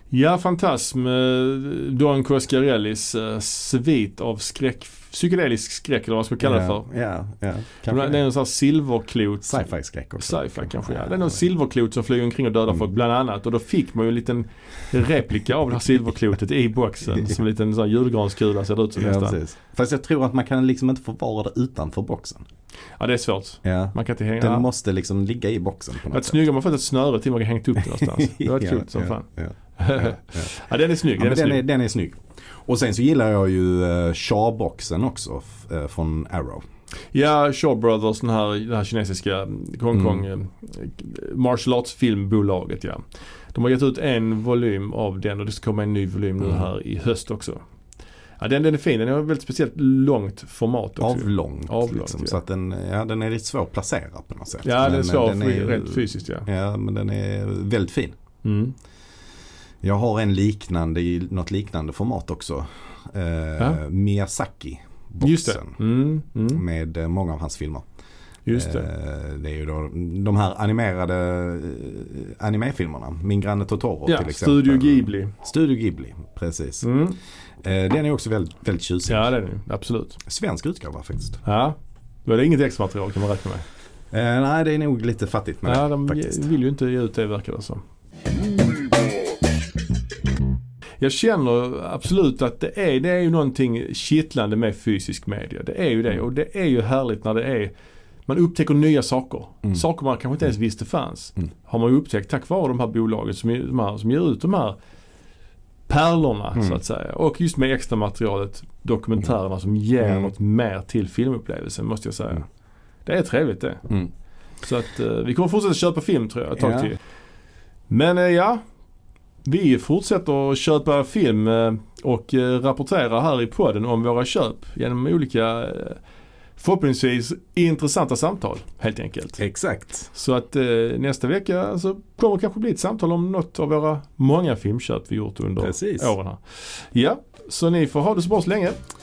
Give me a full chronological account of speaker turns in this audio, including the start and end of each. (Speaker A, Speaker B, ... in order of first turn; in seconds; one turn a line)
Speaker A: 0.1-6.9
Speaker B: 6.4-8.2
Speaker A: 7.9-9.7
Speaker B: 9.4-11.4
Speaker A: 10.2-19.4
Speaker B: 18.9-22.4
Speaker A: 23.0-24.6
Speaker B: 23.6-26.4
Speaker A: 26.1-31.6
Speaker B: 27.9-30.5
Speaker B: 31.1-36.6
Speaker A: 37.1-47.6
Speaker B: 39.9-40.2
Speaker B: 46.4-46.7
Speaker A: 48.4-52.4
Speaker B: 51.0-58.1
Speaker A: 54.6-56.5
Speaker A: 58.4-58.7
Speaker B: 59.8-65.8
Speaker A: 65.2-66.6
Speaker B: 66.5-67.8
Speaker A: 68.5-68.9
Speaker B: 68.5-76.9
Speaker A: 74.1-75.3
Speaker A: 76.8-77.2
Speaker B: 77.6-79.3
Speaker A: 79.1-80.2
Speaker B: 80.2-81.4
Speaker A: 81.4-83.7
Speaker B: 84.1-86.5
Speaker A: 85.7-87.8
Speaker A: 91.0-97.7
Speaker A: 98.3-104.8
Speaker A: 105.9-112.5
Speaker B: 110.0-110.3
Speaker A: 113.0-113.9
Speaker A: 114.6-117.0
Speaker B: 116.6-116.9
Speaker A: 117.9-118.6
Speaker A: 119.5-126.0
Speaker A: 126.6-129.4
Speaker B: 129.4-130.1
Speaker A: 130.1-138.8
Speaker B: 135.6-136.1